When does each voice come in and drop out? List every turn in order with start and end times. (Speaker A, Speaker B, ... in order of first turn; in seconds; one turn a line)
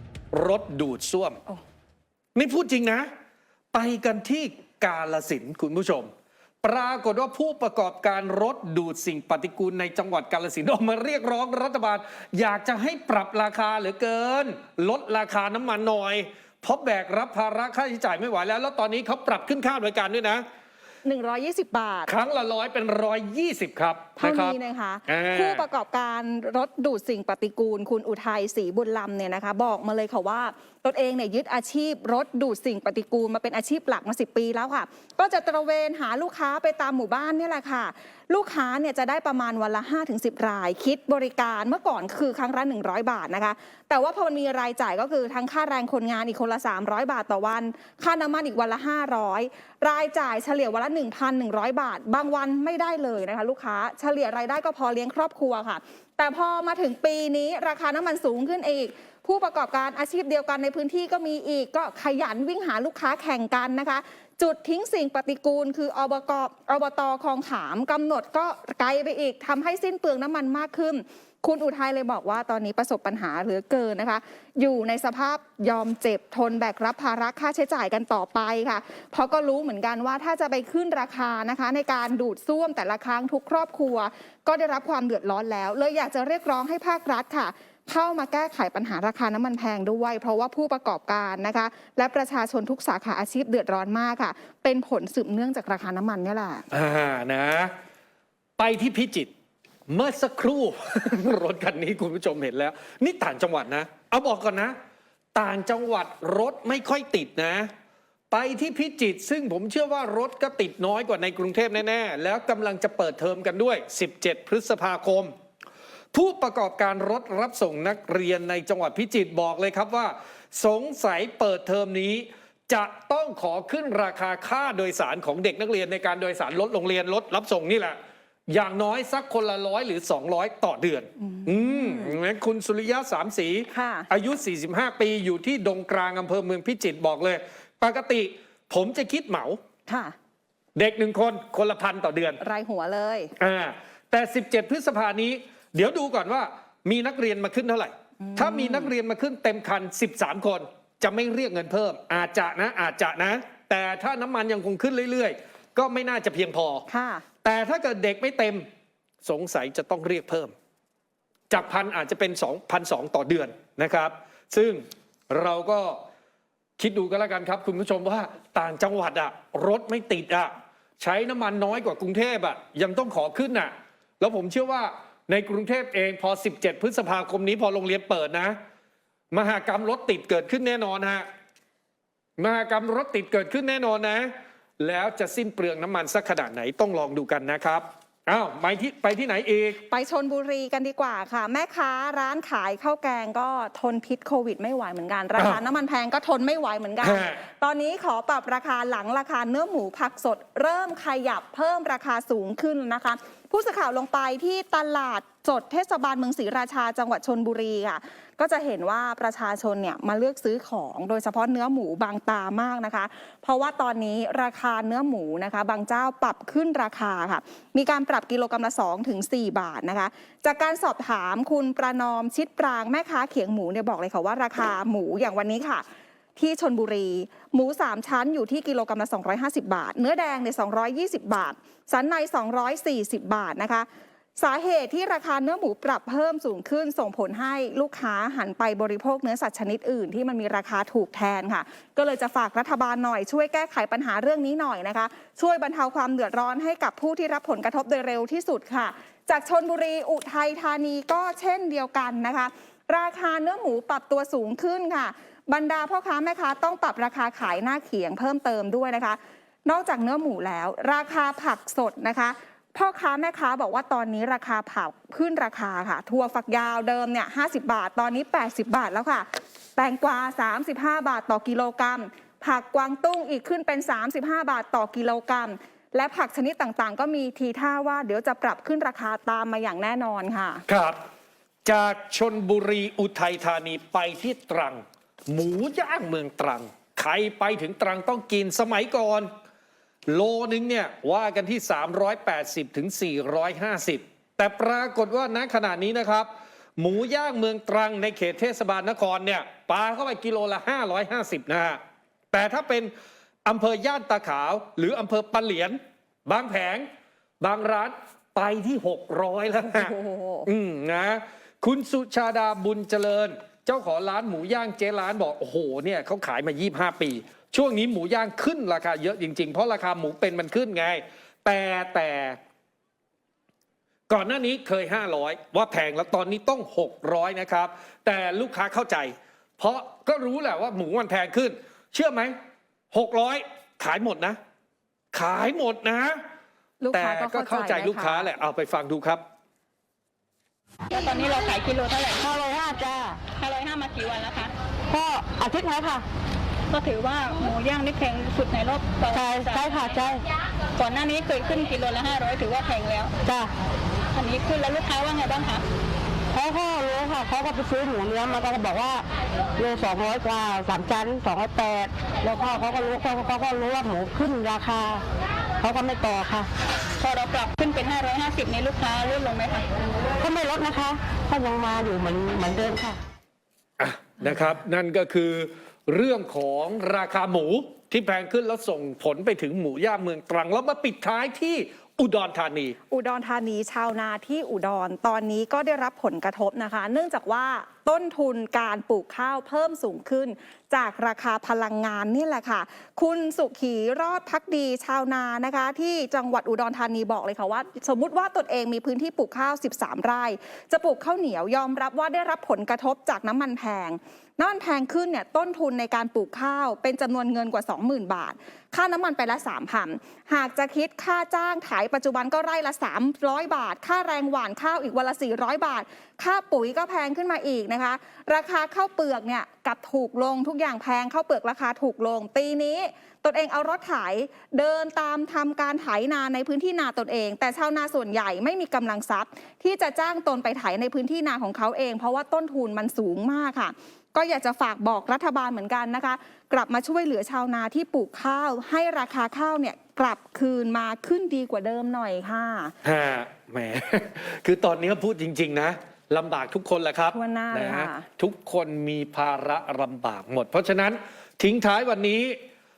Speaker A: 0.3-1.4
Speaker A: 2.4-3.1
Speaker A: 3.7-6.1
Speaker A: 6.6-20.4
Speaker B: 21.0-22.1
Speaker A: 22.1-25.6
Speaker B: 24.2-96.7
Speaker A: 96.7-97.7
Speaker A: 98.6-99.3
Speaker A: 99.9-104.8
Speaker A: 105.3-107.7
Speaker A: 108.3-115.3
Speaker A: 116.1-139.6
Speaker B: 131.3-132.1
Speaker B: 133.7-134.1
Speaker B: 139.9-140.2
Speaker A: 140.8-142.4
Speaker B: 142.4-143.3
Speaker A: 143.4-156.8
Speaker B: 148.2-148.9
Speaker B: 156.9-157.2
Speaker A: 157.4-158.7
Speaker A: 159.2-160.5
Speaker A: 161.5-166.0
Speaker A: 166.8-178.6
Speaker A: 179.3-181.3
Speaker A: 182.4-189.8
Speaker B: 189.8-225.8
Speaker A: 197.0-197.4
Speaker B: 226.4-280.6
Speaker A: 280.7-281.0
Speaker A: 281.6-289.3
Speaker A: 290.1-301.8
Speaker A: 302.3-302.9
Speaker A: 303.4-306.9
Speaker A: 307.4-309.9
Speaker B: 309.6-310.5
Speaker A: 310.5-322.4
Speaker A: 324.1-332.4
Speaker A: 332.9-334.4
Speaker A: 335.1-336.2
Speaker B: 336.8-338.3
Speaker A: 336.9-339.2
Speaker C: 340.9-342.3
Speaker D: 342.2-343.2
Speaker C: 343.3-344.5
Speaker D: 344.9-346.1
Speaker C: 346.7-349.7
Speaker D: 349.1-350.2
Speaker C: 350.8-353.1
Speaker D: 353.2-353.5
Speaker C: 354.1-355.7
Speaker D: 356.3-359.1
Speaker D: 359.6-365.0
Speaker D: 365.6-366.5
Speaker C: 367.0-369.7
Speaker D: 370.2-373.0
Speaker A: 373.8-382.8
Speaker B: 382.9-442.8
Speaker A: 442.8-452.4
Speaker B: 447.1-448.1